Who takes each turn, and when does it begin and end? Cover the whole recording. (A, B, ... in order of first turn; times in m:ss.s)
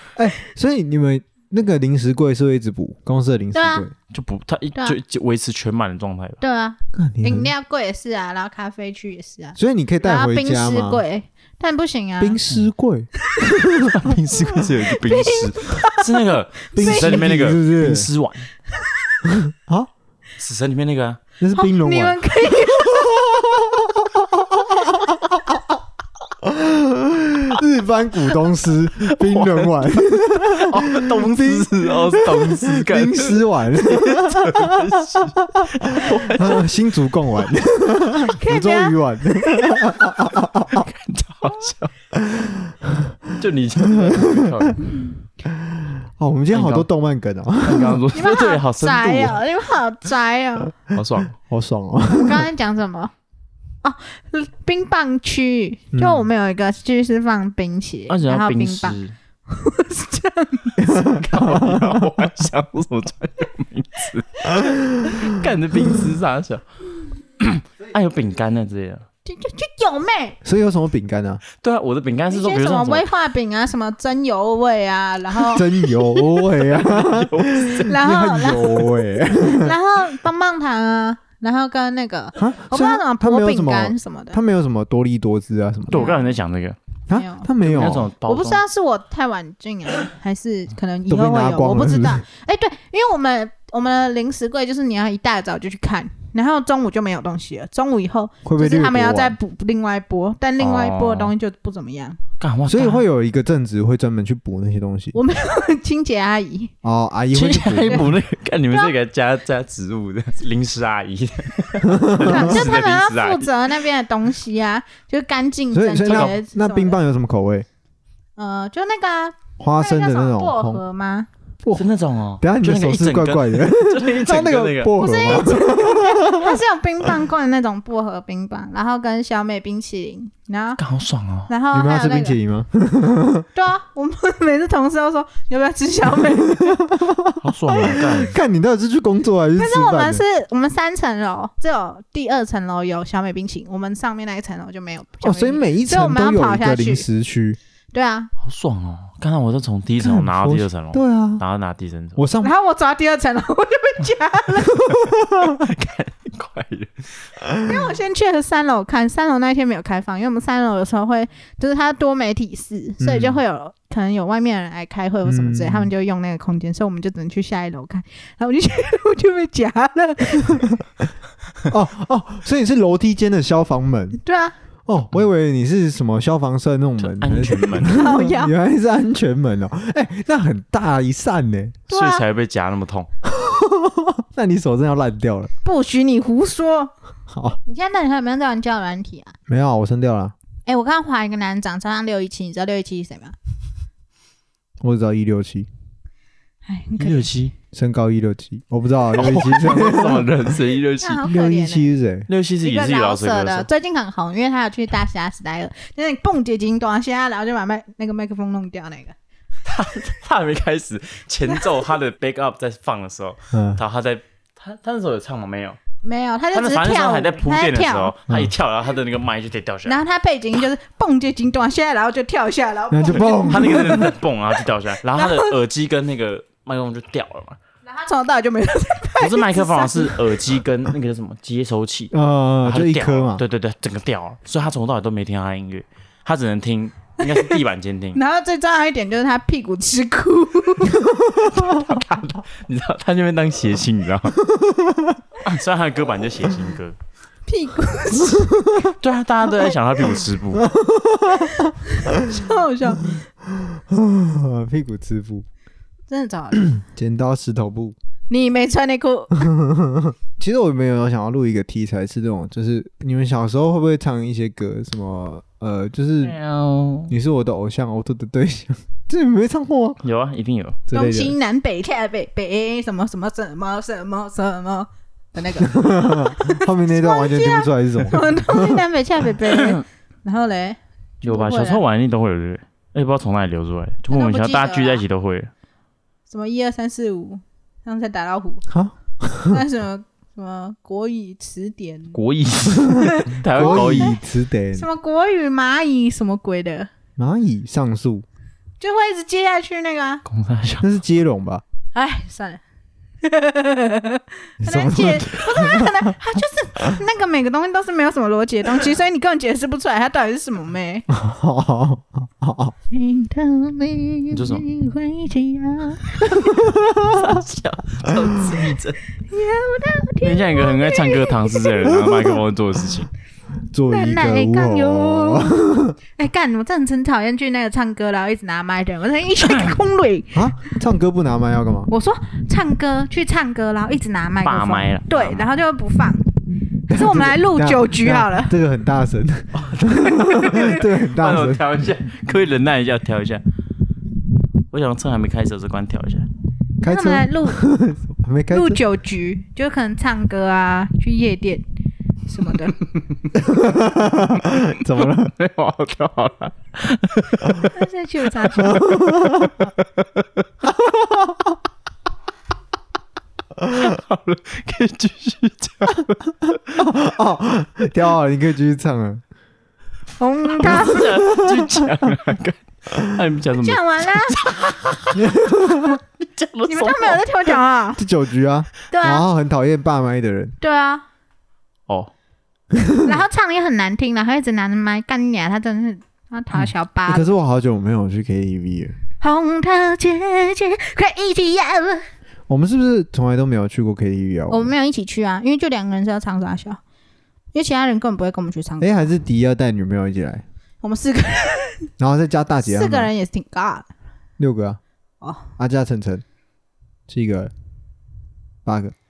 0:00.2-0:03.9 A
0:03.5-0:03.8 B
0:04.1-0:06.4 C
0:06.4-0:12.4 B
0:06.9-0:07.5 A
0:09.6-0:11.0 A
0:12.2-0:13.1 A
0:13.3-0:13.9 B
0:13.8-0:14.7 A
0:13.8-0:18.5 C
0:14.9-0:17.2 B
0:16.8-0:18.1 A
0:18.8-0:19.3 B
0:19.2-0:19.9 A
0:20.4-0:21.2 C
0:21.4-0:25.6 A
0:21.5-0:23.3 B
0:26.4-0:40.9 A
0:29.1-0:29.7 C
0:30.5-0:36.7 C
0:38.2-0:40.1 B
0:40.7-0:41.9 C
0:42.1-0:43.3 A
0:43.4-0:44.9 C
0:43.9-0:44.8 A
0:45.4-0:48.1 A
0:46.5-0:46.9 C
0:47.6-0:49.4 C
0:48.1-0:50.7 B
0:50.9-0:51.3 C
0:51.5-0:52.5 A
0:52.1-0:53.1 B
0:53.8-1:00.9 B
0:55.9-0:56.3 A
0:58.1-0:59.2 C
1:00.8-1:02.0 A
1:00.9-1:06.6 C
1:07.4-1:09.0 C
1:09.2-1:10.4 B
1:10.4-1:11.4 A
1:11.5-1:13.0 C
1:12.3-1:16.2 B
1:15.5-1:19.7 A
1:16.7-1:17.8 C
1:17.8-1:24.4 B
1:22.4-1:26.1 A
1:25.9-1:26.8 C
1:25.9-1:26.3 B
1:27.1-1:28.1 A
1:27.1-1:27.5 B
1:27.6-1:28.6 C
1:28.2-1:42.2 B
1:31.1-1:32.2 A
1:38.4-1:39.4 A
1:40.6-1:41.3 C
1:42.4-1:43.0 C
1:42.7-1:45.1 A
1:45.1-1:46.7 B
1:46.8-1:48.1 A
1:47.3-1:53.5 C
1:51.8-1:52.7 A
1:52.2-1:57.0 B
1:55.7-1:57.6 A
1:56.0-1:56.3 C
1:58.4-2:01.3 B
1:59.6-2:00.8 A
2:01.7-2:05.0 C
2:02.4-2:06.6 A
2:05.0-2:10.8 B
2:10.8-2:11.5 C
2:11.5-2:12.4 B
2:11.7-2:13.5 A
2:13.5-2:16.8 B
2:16.2-2:20.2 A
2:17.4-2:18.4 C
2:19.6-2:27.0 B
2:25.2-2:27.6 A
2:27.9-2:28.3 B
2:28.4-2:32.2 C
2:30.0-2:31.4 A
2:32.2-2:32.5 A
2:32.4-2:34.8 B
2:34.8-2:35.7 A
2:35.4-2:37.0 C
2:37.6-2:50.8 B
2:43.0-2:43.4 A
2:45.2-2:45.9 A
2:51.7-2:54.2 A
2:54.2-2:54.5 B
2:54.9-3:01.8 A
2:57.0-2:58.0 C
2:57.8-2:58.5 B
3:01.9-3:02.2 B
3:01.9-3:03.1 C
3:03.2-3:05.5 A
3:05.6-3:06.9 B
3:07.3-3:07.6 A
3:07.6-3:09.4 B
3:09.5-3:10.3 A
3:10.6-3:13.3 B
3:14.8-3:15.7 A
3:16.6-3:17.3 B
3:17.0-3:17.5 C
3:17.7-3:20.3 A
3:19.1-3:21.2 C
3:21.0-3:21.9 B
3:21.2-3:22.3 A
3:22.3-3:23.7 C
3:22.6-3:29.1 B
3:29.6-3:35.8 C
3:33.5-3:33.8 A
3:36.0-3:38.1 B
3:36.5-3:40.0 C
3:38.3-3:38.5 A
3:39.8-3:44.1 B
3:42.9-3:44.1 A
3:43.1-3:47.6 C
3:45.1-3:45.5 B
3:47.8-3:50.4 B
3:49.2-3:58.2 C
3:52.1-3:53.4 A
3:57.2-3:57.6 B
3:58.1-4:01.1 B
4:01.4-4:04.4 C
4:04.5-4:05.2 A
4:05.4-4:07.0 C
4:07.5-4:08.6 B
4:08.9-4:10.7 C
4:10.6-4:11.6 A
4:11.3-4:13.2 B
4:13.4-4:15.4 A
4:16.1-4:16.8 B
4:16.7-4:17.9 A
4:18.3-4:19.5 B
4:19.4-4:26.4 A
4:26.2-4:27.1 C
4:27.1-4:30.0 A
4:30.0-4:30.8 C
4:30.9-4:31.3 A
4:30.9-4:41.8 B
4:35.6-4:38.8 A
4:39.5-4:39.8 C
4:41.2-4:45.5 C
4:44.1-4:45.0 B
4:46.3-4:48.6 B
4:48.7-4:49.6 A
4:49.5-4:52.2 B
4:52.1-4:54.2 C
4:52.8-4:54.8 A
4:52.9-4:54.2 B
4:54.7-4:56.9 B
4:57.2-4:58.2 A
4:58.8-5:00.2 B
5:00.2-5:00.9 C
5:00.8-5:01.6 A
5:01.9-5:02.6 B
5:03.2-5:11.1 B
5:04.6-5:06.1 A
5:11.1-5:12.7 A
5:12.9-5:16.7 B
5:14.3-5:14.7 C
5:16.6-5:17.3 A
5:17.0-5:19.0 C
5:18.1-5:18.5 A
5:19.3-5:21.7 B
5:20.2-5:23.1 C
5:22.0-5:22.3 A
5:23.7-5:25.9 A
5:23.9-5:30.7 B
5:30.3-5:31.9 A
5:31.9-5:36.3 B
5:34.4-5:35.5 C
5:36.9-5:38.5 B
5:36.9-5:41.6 A
5:39.6-5:43.4 C
5:44.7-5:46.3 C
5:46.8-5:48.8 A
5:46.8-5:47.6 B
5:48.5-5:51.6 B
5:52.3-5:52.8 B
5:53.3-5:55.3 A
5:55.0-5:57.7 C
5:57.7-5:58.9 B
5:58.6-6:00.3 C
5:58.6-5:59.7 A
6:00.6-6:01.6 A
6:03.6-6:06.8 C
6:06.8-6:09.2 A
6:10.2-6:11.1 B
6:10.6-6:17.5 C
6:10.6-6:12.1 A
6:13.6-6:14.4 B
6:15.2-6:16.0 A
6:16.7-6:18.0 B
6:18.0-6:20.5 A
6:18.9-6:19.2 B
6:20.6-6:21.0 B
6:22.7-6:23.2 A
6:23.0-6:27.3 B
6:27.1-6:29.0 A
6:29.2-6:32.0 B
6:32.5-6:34.7 A
6:34.5-6:36.8 B
6:37.5-6:39.1 B
6:38.8-6:40.4 A
6:40.8-6:41.9 B
6:42.0-6:43.1 A
6:42.6-6:43.9 B
6:44.4-6:44.8 A
6:45.2-6:45.5 B
6:45.6-6:46.2 A
6:47.1-6:47.5 A
6:48.6-6:48.9 A